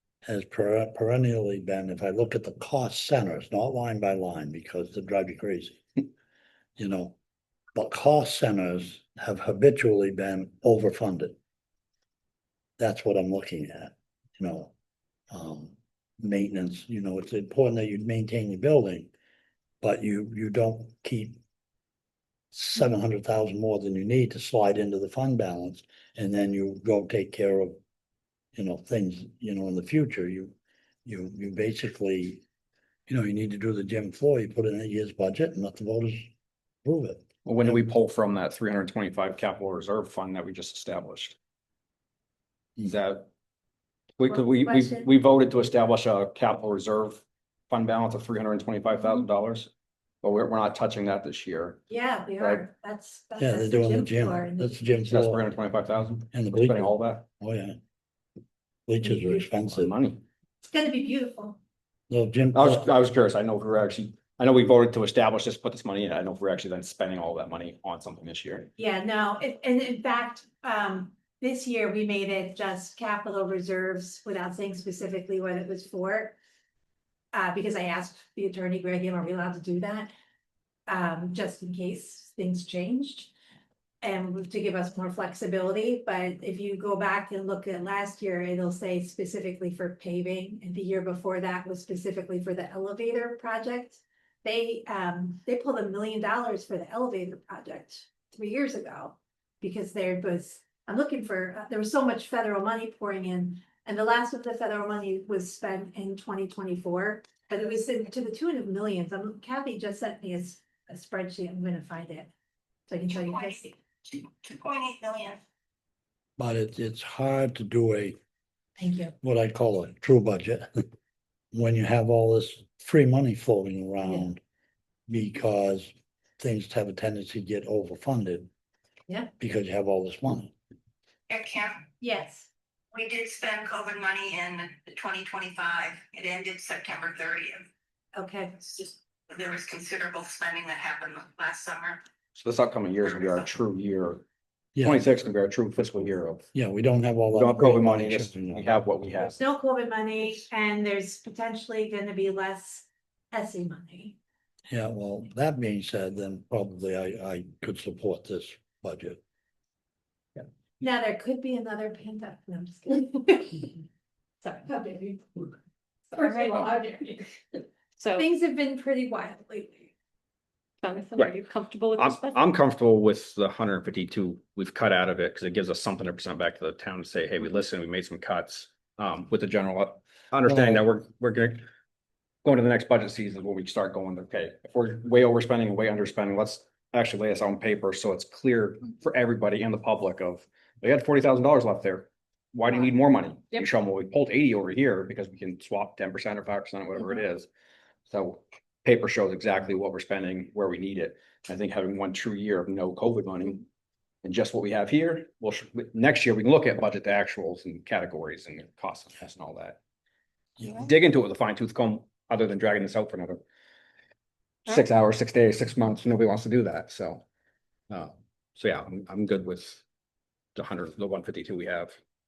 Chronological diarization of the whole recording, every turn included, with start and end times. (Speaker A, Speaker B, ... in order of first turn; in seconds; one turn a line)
Speaker A: 0.2-6.0
Speaker A: 6.8-7.2
Speaker A: 7.8-11.4
Speaker A: 12.8-14.7
Speaker A: 15.3-19.1
Speaker A: 19.8-21.4
Speaker A: 22.5-27.8
Speaker A: 28.6-30.5
Speaker A: 31.1-32.4
Speaker A: 33.1-36.3
Speaker A: 36.9-37.8
Speaker B: 37.5-41.4
Speaker B: 42.8-43.3
Speaker B: 44.2-49.7
Speaker C: 44.3-45.1
Speaker B: 50.2-51.8
Speaker C: 51.9-54.9
Speaker A: 53.4-55.5
Speaker B: 55.1-57.3
Speaker A: 56.3-57.8
Speaker A: 58.9-59.9
Speaker B: 59.6-60.2
Speaker C: 60.6-61.6
Speaker A: 62.1-62.9
Speaker B: 62.5-68.7
Speaker C: 68.8-76.4
Speaker C: 77.3-80.1
Speaker C: 80.9-83.3
Speaker C: 84.0-112.3
Speaker C: 112.9-113.8
Speaker D: 114.2-115.4
Speaker A: 116.4-118.2
Speaker C: 118.8-119.2
Speaker A: 119.2-120.8
Speaker A: 121.5-124.4
Speaker A: 125.1-128.5
Speaker A: 129.4-130.5
Speaker D: 131.3-131.8
Speaker C: 132.0-132.5
Speaker D: 132.9-137.7
Speaker C: 138.1-138.6
Speaker D: 138.7-142.0
Speaker B: 142.3-144.2
Speaker D: 143.1-143.4
Speaker A: 144.8-145.1
Speaker B: 144.8-146.5
Speaker A: 146.5-148.7
Speaker B: 147.3-149.4
Speaker C: 149.4-154.2
Speaker A: 154.7-159.2
Speaker C: 160.8-163.7
Speaker C: 164.4-165.4
Speaker C: 166.1-167.2
Speaker E: 166.2-166.7
Speaker E: 168.0-168.3
Speaker C: 168.2-169.9
Speaker E: 170.8-172.4
Speaker B: 172.0-181.6
Speaker A: 180.5-180.8
Speaker B: 182.4-197.5
Speaker B: 198.1-203.7
Speaker B: 204.2-209.8
Speaker B: 210.7-213.4
Speaker B: 214.7-217.2
Speaker B: 217.9-219.8
Speaker B: 220.6-222.0